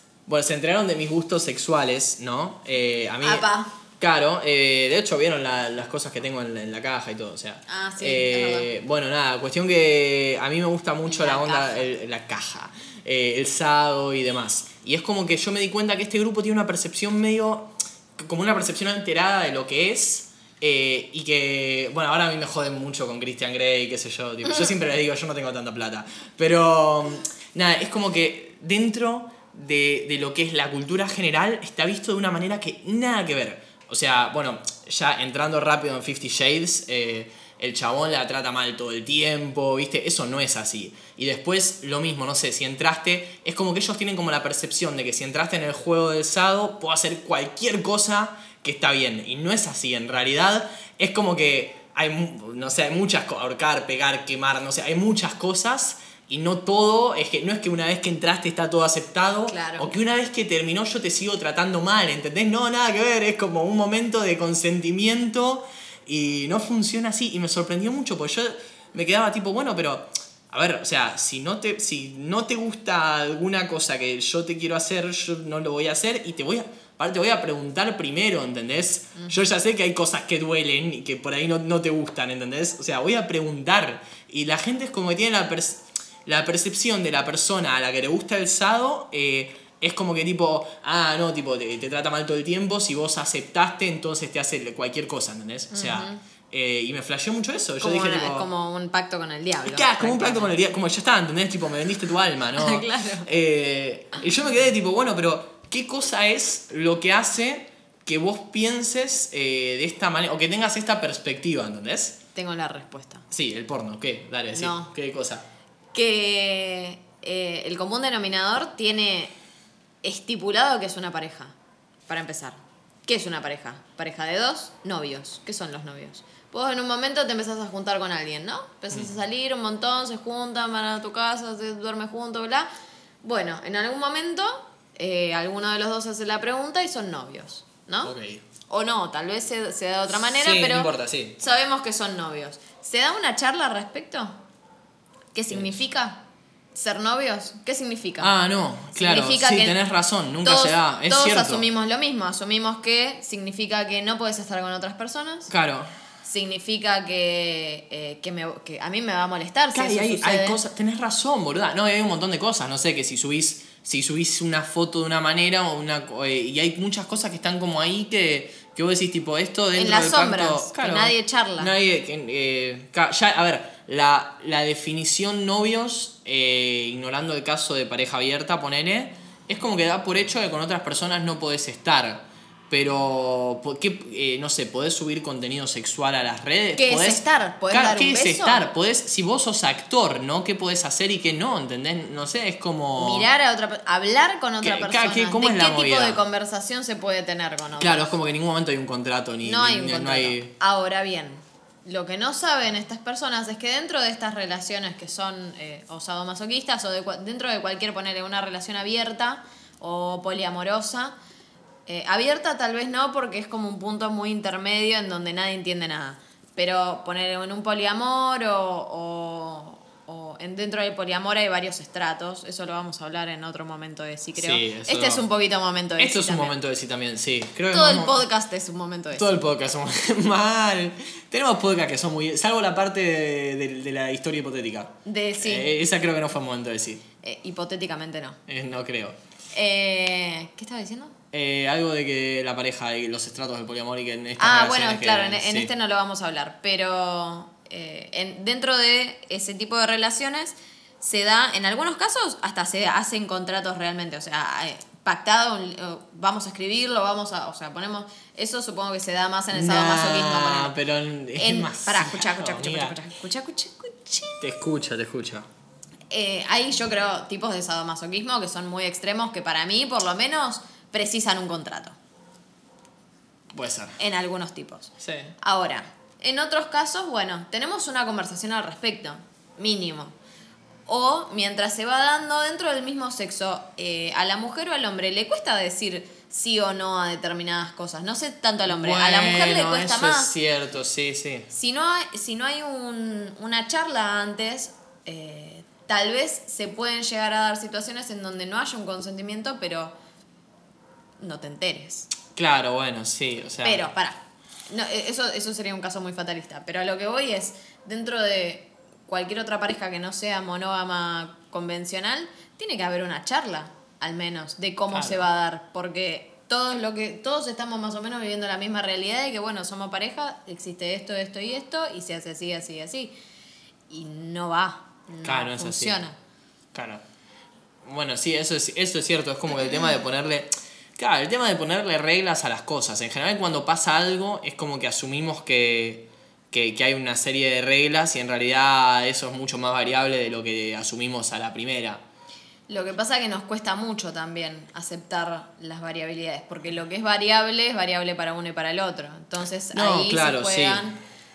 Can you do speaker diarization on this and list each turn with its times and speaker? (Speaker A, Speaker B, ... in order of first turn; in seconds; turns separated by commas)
Speaker A: 0.3-3.5, Speaker B: 3.2-3.7, Speaker A: 4.0-98.5, Speaker B: 7.7-8.7, Speaker B: 11.1-11.9, Speaker B: 59.5-59.9, Speaker B: 95.7-96.2, Speaker B: 97.8-100.5, Speaker A: 99.6-112.2, Speaker B: 102.5-103.3, Speaker B: 112.3-113.3, Speaker A: 113.3-115.5, Speaker B: 114.5-114.9, Speaker B: 115.9-119.3, Speaker B: 120.0-121.5, Speaker B: 122.1-132.7, Speaker B: 133.2-138.1, Speaker A: 138.0-138.4, Speaker B: 138.7-144.4, Speaker A: 140.3-141.4, Speaker B: 145.3-146.2, Speaker B: 146.7-148.3, Speaker A: 148.2-151.7, Speaker B: 148.9-149.8, Speaker B: 150.4-155.5, Speaker A: 155.5-155.9, Speaker B: 156.2-160.6, Speaker A: 159.7-193.3, Speaker B: 169.8-171.7, Speaker B: 186.8-188.7, Speaker B: 193.0-198.1, Speaker A: 194.6-196.2, Speaker A: 197.8-200.5, Speaker B: 199.4-211.2, Speaker B: 211.9-226.6, Speaker A: 224.4-225.2, Speaker A: 226.0-228.2, Speaker B: 227.7-229.4, Speaker A: 229.2-237.0, Speaker B: 235.1-235.7, Speaker B: 237.2-238.4, Speaker A: 238.5-239.2, Speaker B: 239.5-241.2, Speaker A: 241.3-245.7, Speaker B: 244.4-260.8, Speaker A: 259.5-263.0, Speaker B: 261.4-264.5, Speaker A: 264.4-265.5, Speaker B: 266.1-272.0, Speaker A: 273.5-274.0, Speaker B: 274.0-280.1, Speaker A: 275.0-275.4, Speaker B: 280.9-290.3, Speaker A: 288.7-291.5, Speaker B: 291.5-299.9, Speaker B: 301.2-302.1, Speaker A: 302.3-303.9, Speaker B: 303.6-323.2, Speaker A: 314.9-315.3, Speaker B: 323.9-326.2, Speaker A: 325.2-326.0, Speaker A: 326.7-327.0, Speaker A: 327.9-342.0, Speaker B: 342.7-351.0, Speaker A: 349.7-350.9